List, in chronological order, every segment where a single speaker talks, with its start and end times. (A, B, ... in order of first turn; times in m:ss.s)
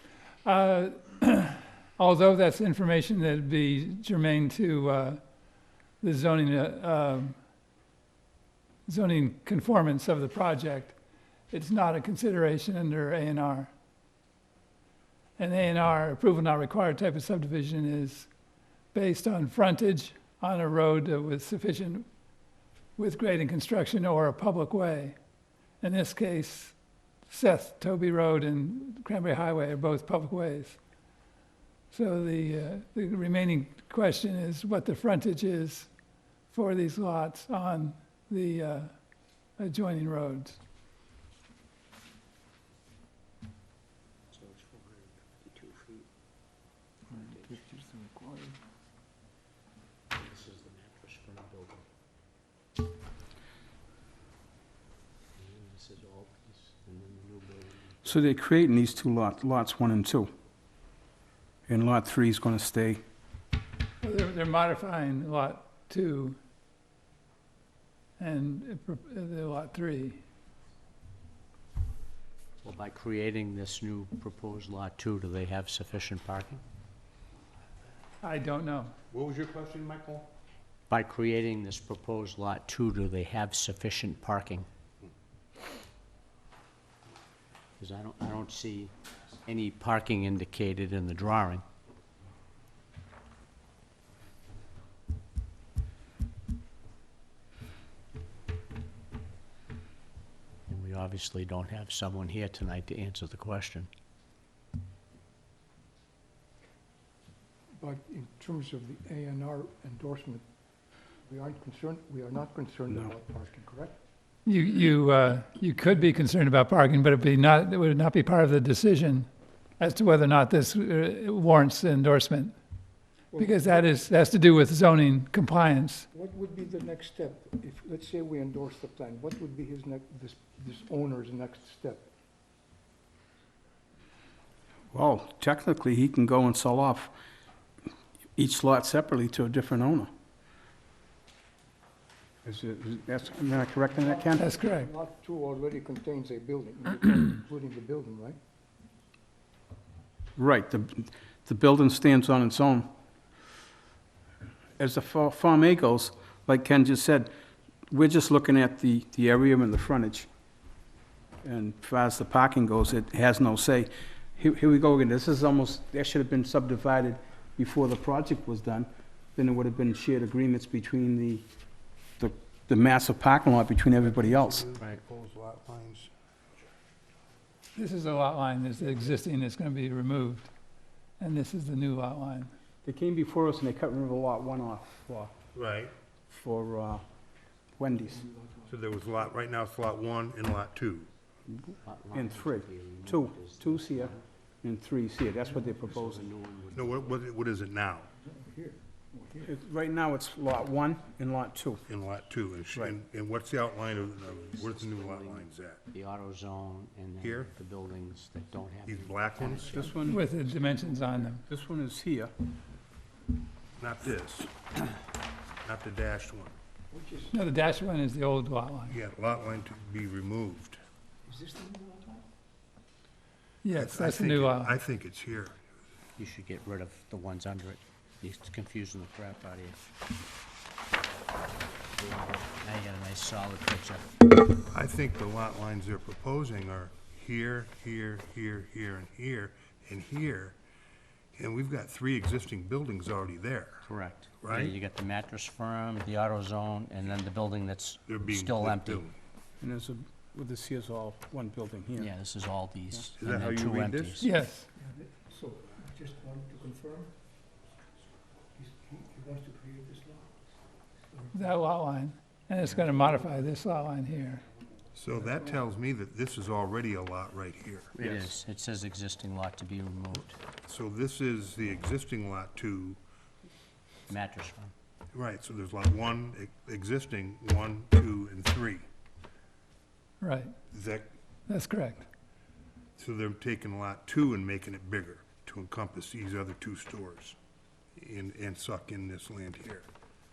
0:00.4-0:05.2 A
0:06.0-0:07.4 A
0:08.9-0:11.0 A
0:11.5-0:13.7 A
0:15.4-0:18.3 A
0:18.9-0:22.1 A
0:23.0-0:25.2 A
0:25.8-0:26.8 A
0:27.3-0:30.8 A
0:31.9-0:35.9 A
0:36.5-0:38.9 A
0:39.6-0:40.6 A
0:44.3-0:46.1 B
0:47.1-0:47.6 B
0:47.3-0:48.6 C
0:50.1-0:51.8 B
0:55.4-0:58.0 B
0:58.0-1:00.3 D
1:01.7-1:03.0 D
1:04.0-1:06.4 A
1:08.2-1:10.2 A
1:12.6-1:16.6 B
1:18.2-1:18.9 A
1:19.1-1:20.3 E
1:20.9-1:24.7 B
1:27.8-1:28.9 B
1:29.4-1:31.6 B
1:40.7-1:43.9 B
1:47.8-1:50.4 C
1:51.3-1:54.0 C
1:54.5-1:59.3 A
1:59.8-2:02.6 A
2:03.3-2:03.9 C
2:03.4-2:06.1 A
2:06.1-2:12.1 C
2:14.9-2:17.1 D
2:18.4-2:20.1 D
2:22.4-2:24.5 D
2:23.7-2:28.4 C
2:24.4-2:24.9 A
2:30.4-2:32.9 D
2:34.8-2:37.3 D
2:37.9-2:40.3 D
2:41.4-2:51.5 D
2:52.2-2:54.7 D
2:54.0-2:56.1 E
2:57.8-3:00.5 A
3:01.2-3:02.5 A
3:02.8-3:05.3 D
3:05.5-3:05.9 E
3:06.3-3:07.0 D
3:07.8-3:08.3 D
3:08.3-3:08.6 C
3:08.7-3:11.1 E
3:11.5-3:16.3 D
3:11.8-3:14.2 B
3:15.9-3:17.2 B
3:16.7-3:18.1 E
3:18.2-3:19.5 C
3:19.4-3:21.8 D
3:21.9-3:25.8 E
3:24.5-3:29.9 B
3:27.2-3:27.5 E
3:28.8-3:29.9 E
3:29.7-3:30.3 D
3:30.0-3:31.4 A
3:31.4-3:32.3 D
3:33.8-3:34.9 E
3:35.6-3:36.5 E
3:36.9-3:37.3 C
3:37.3-3:38.9 A
3:38.9-3:40.8 E
3:41.2-3:42.2 C
3:43.6-3:44.8 A
3:43.8-3:45.6 E
3:46.2-3:49.8 B
3:52.0-3:54.2 B
3:54.7-4:00.6 E
4:01.4-4:03.9 E
4:03.9-4:09.0 B
4:04.4-4:04.8 E
4:08.1-4:09.2 E
4:09.6-4:12.1 D
4:12.0-4:14.3 B
4:13.2-4:14.2 E
4:14.2-4:14.7 A
4:14.8-4:17.2 C
4:18.6-4:20.4 C
4:21.1-4:21.4 C
4:21.3-4:24.4 A
4:24.9-4:28.0 E
4:27.9-4:30.4 B
4:30.6-4:33.0 E
4:34.1-4:34.7 B
4:35.1-4:38.8 E
4:40.2-4:40.5 A
4:40.7-4:41.2 E
4:41.5-4:42.1 A
4:43.0-4:47.4 E
4:48.0-4:49.9 E